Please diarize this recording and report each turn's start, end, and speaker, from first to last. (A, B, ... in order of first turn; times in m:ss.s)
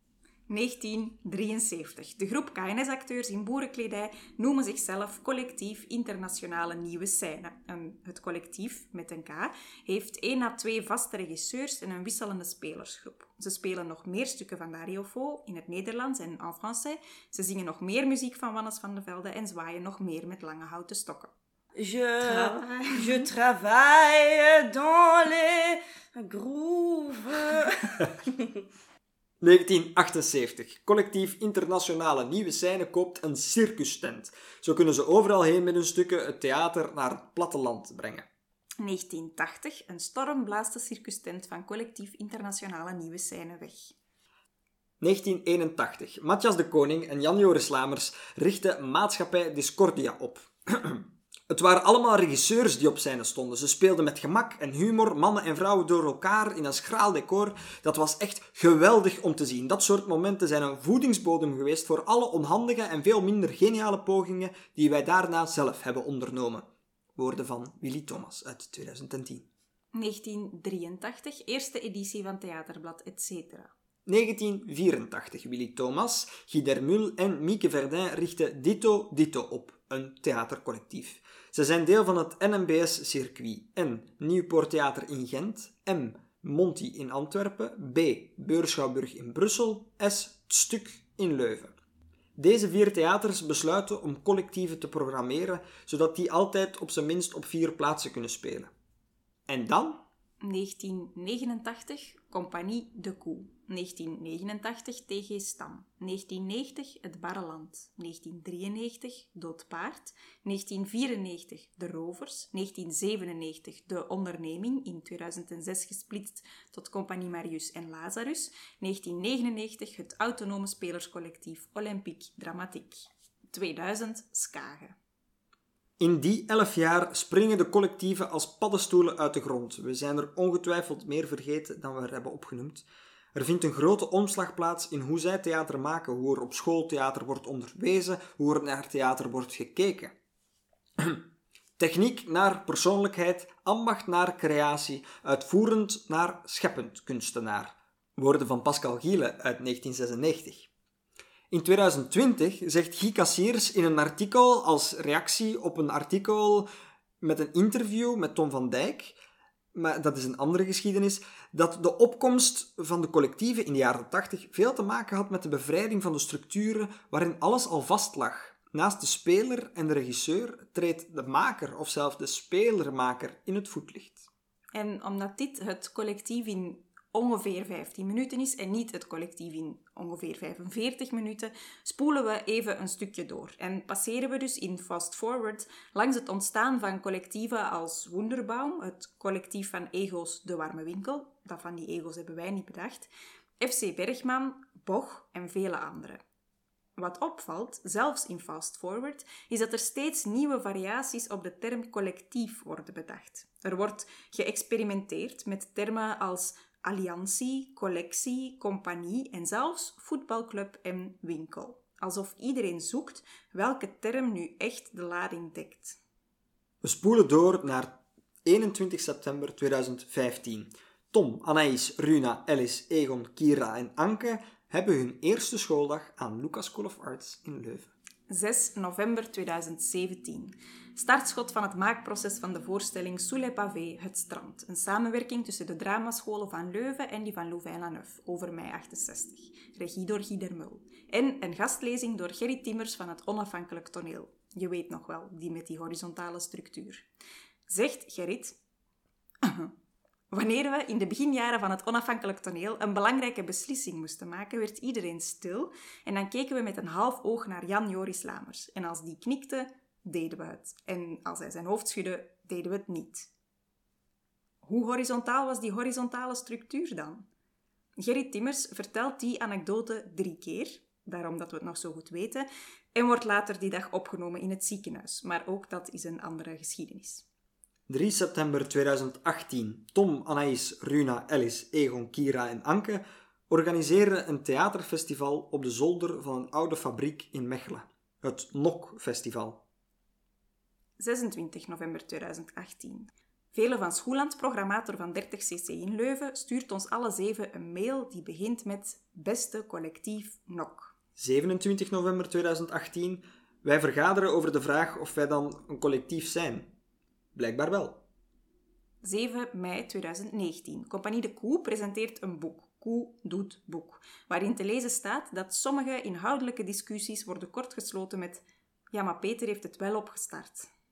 0:00.5-0:21.3 A
0:21.8-0:28.5 B
0:22.2-0:23.3 A
0:29.4-0:38.3 C
0:38.8-0:44.0 A
0:45.0-1:09.5 C
1:09.9-1:13.7 A
1:14.1-1:31.8 C
1:32.4-1:38.7 C
1:39.5-1:40.0 C
1:40.4-2:05.0 A
2:06.0-2:20.2 C
2:21.0-2:21.2 C
2:21.8-2:30.7 C
2:31.5-2:36.7 C
2:37.2-2:39.2 C
2:39.7-2:54.3 C
2:54.8-3:13.1 A
3:13.6-3:16.2 A
3:17.0-3:36.0 A
3:36.8-3:47.9 C
3:48.3-4:07.1 A
4:07.7-4:08.6 A
4:09.4-4:09.7 A
4:10.3-4:23.3 A
4:24.6-4:27.3 A
4:28.0-4:37.2 A
4:37.9-4:49.6 C
4:51.0-5:00.9 A
5:01.2-5:06.7 C
5:07.4-5:08.0 C
5:09.0-5:20.7 A